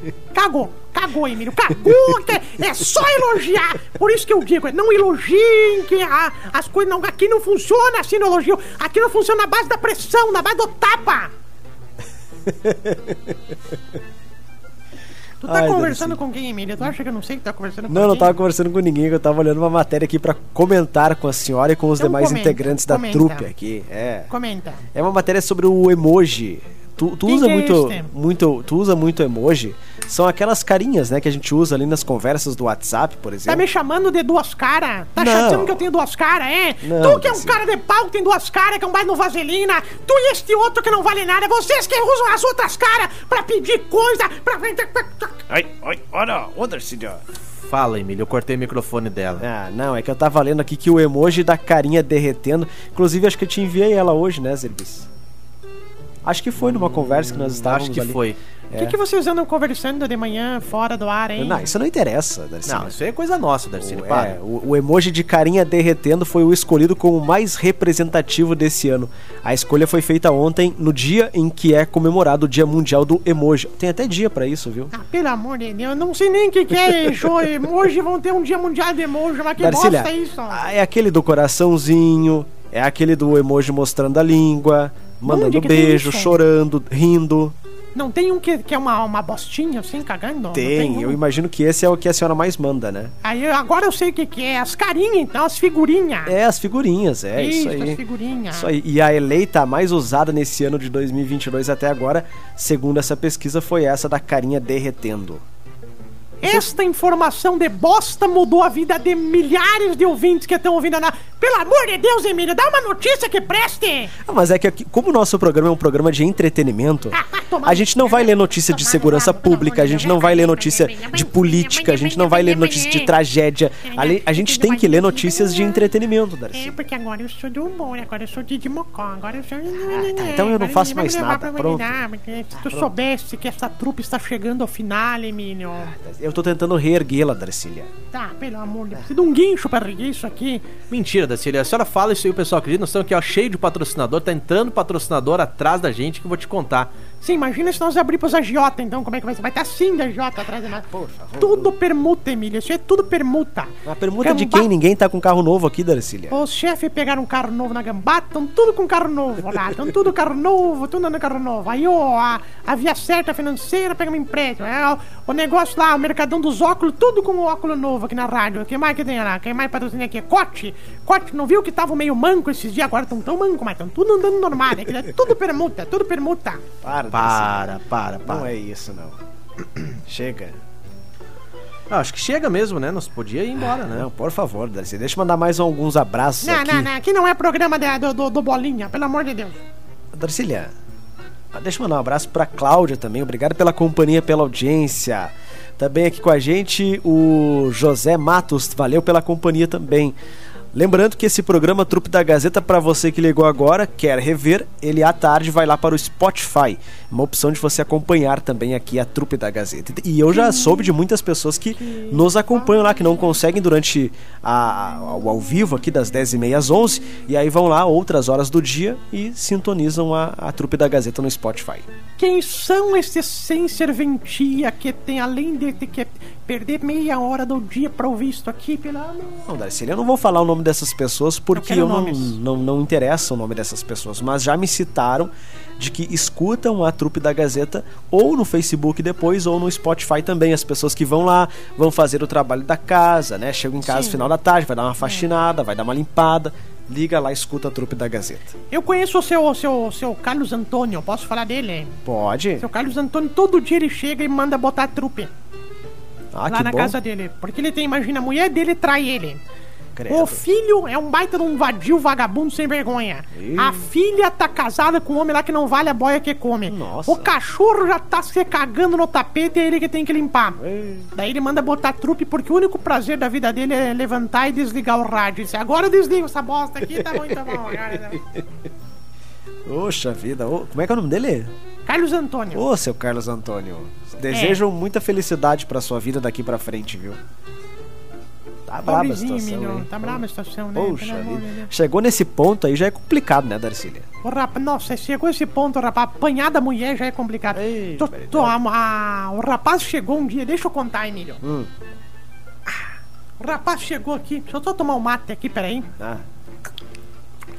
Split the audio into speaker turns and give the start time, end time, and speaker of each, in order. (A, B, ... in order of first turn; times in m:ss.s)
0:00.3-0:11.3 A
0:12.5-0:13.8 B
0:15.4-0:18.3 A
0:15.4-0:16.2 B
0:17.9-0:24.3 B
0:22.0-0:23.5 A
0:24.3-0:24.9 A
0:24.9-0:33.6 B
0:27.3-0:28.1 A
0:33.5-0:45.4 A
0:35.2-0:35.8 B
0:36.8-0:37.6 B
0:45.5-0:47.2 B
0:47.6-0:49.4 C
0:49.4-0:55.1 B
0:56.2-0:59.0 B
0:57.3-0:58.4 C
0:58.7-1:01.6 A
1:01.4-1:02.9 B
1:02.7-1:04.4 C
1:03.8-1:14.9 B
1:14.9-1:20.6 A
1:17.0-1:17.3 B
1:19.6-1:27.6 B
1:25.2-1:26.4 A
1:28.0-1:31.2 A
1:30.5-1:33.1 B
1:33.2-1:36.4 A
1:36.3-1:38.0 B
1:37.4-1:38.7 A
1:38.5-1:45.4 B
1:46.4-1:54.1 A
1:54.2-2:06.8 B
1:57.1-2:03.1 A
2:03.8-2:05.9 A
2:06.5-2:15.9 A
2:09.8-2:12.0 B
2:12.5-2:12.9 B
2:15.8-2:17.9 B
2:18.1-2:20.7 A
2:20.9-2:26.9 C
2:27.2-2:34.7 A
2:30.9-2:31.7 B
2:33.8-2:36.4 B
2:36.3-2:56.6 A
2:56.8-2:59.2 B
2:57.1-2:58.5 C
2:59.8-3:00.6 B
3:01.9-3:04.1 C
3:03.8-3:06.9 B
3:06.4-3:09.6 A
3:10.1-3:10.7 B
3:11.5-3:20.2 B
3:20.7-3:41.9 B
3:30.3-3:31.0 A
3:31.8-3:33.3 A
3:42.2-3:49.5 A
3:49.5-4:08.6 B
3:51.5-3:52.4 A
4:03.8-4:04.3 A
4:08.7-4:12.0 A
4:12.0-4:12.7 B
4:12.6-4:15.3 A
4:16.3-4:17.0 B
4:16.5-4:19.4 A
4:20.0-4:20.4 B
4:20.1-4:30.6 A
4:23.3-4:23.9 B
4:26.7-4:27.4 B
4:30.6-4:31.1 B
4:31.1-4:38.2 A
4:36.9-4:38.4 B
4:39.7-4:41.5 B
4:41.9-4:42.6 A
4:42.5-4:47.2 B
4:44.3-4:44.6 A
4:48.7-4:50.2 B
4:48.8-4:51.7 A
4:50.8-4:54.1 B
4:54.2-5:01.4 A
4:57.5-4:58.6 B
5:01.4-5:01.7 B
5:03.4-5:05.9 A
5:06.0-5:06.2 B